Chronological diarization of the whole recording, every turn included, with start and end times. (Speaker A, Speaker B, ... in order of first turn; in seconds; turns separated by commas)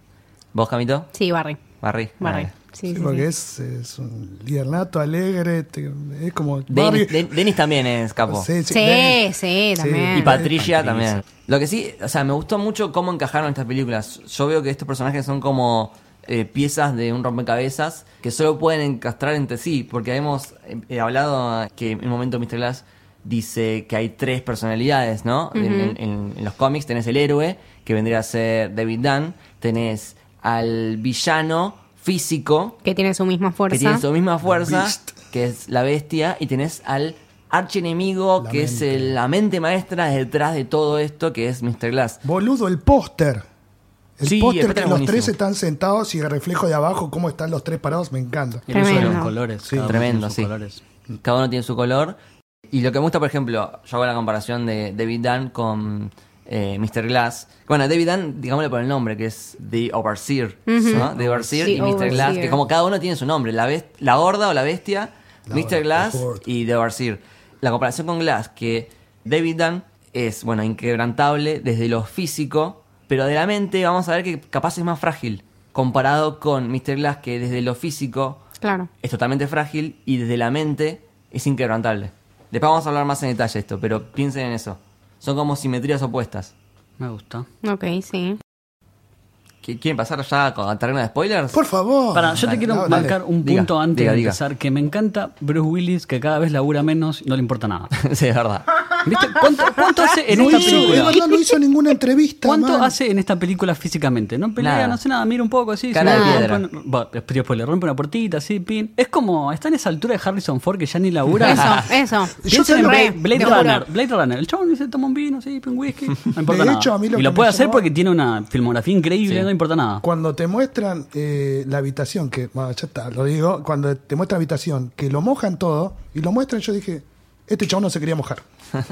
Speaker A: 0.5-1.1, Speaker B: 1.1-1.6, Speaker A: 1.8-2.5, Speaker B: 2.2-3.2, Speaker C: 2.9-7.5, Speaker A: 6.7-8.5, Speaker C: 8.2-10.6, Speaker B: 8.7-10.4, Speaker A: 10.1-32.8, Speaker D: 10.5-11.2, Speaker B: 25.6-25.9, Speaker B: 32.8-34.0, Speaker A: 33.7-42.2, Speaker C: 34.5-35.1, Speaker C: 38.4-39.1, Speaker C: 42.2-43.4, Speaker C: 44.2-50.0, Speaker A: 44.2-45.3, Speaker D: 48.7-50.8, Speaker B: 48.7-49.3, Speaker A: 49.8-50.5, Speaker A: 51.2-52.1, Speaker A: 52.7-78.4, Speaker B: 60.7-62.6, Speaker C: 60.8-62.3, Speaker D: 61.2-62.0, Speaker C: 65.5-66.4, Speaker B: 78.6-78.9, Speaker A: 79.0-86.5, Speaker D: 87.0-87.5, Speaker B: 87.6-88.4, Speaker A: 89.6-91.6, Speaker C: 91.5-93.2, Speaker D: 92.1-97.9, Speaker A: 92.3-94.4, Speaker A: 97.9-98.7, Speaker D: 99.0-101.2, Speaker C: 100.3-102.9, Speaker A: 100.4-101.1, Speaker B: 100.5-101.4, Speaker D: 102.4-111.8, Speaker A: 104.6-105.0, Speaker A: 105.9-106.6, Speaker B: 106.0-106.4, Speaker B: 111.4-113.8, Speaker C: 112.4-113.8, Speaker D: 112.5-120.0, Speaker C: 116.4-117.9, Speaker C: 120.0-128.4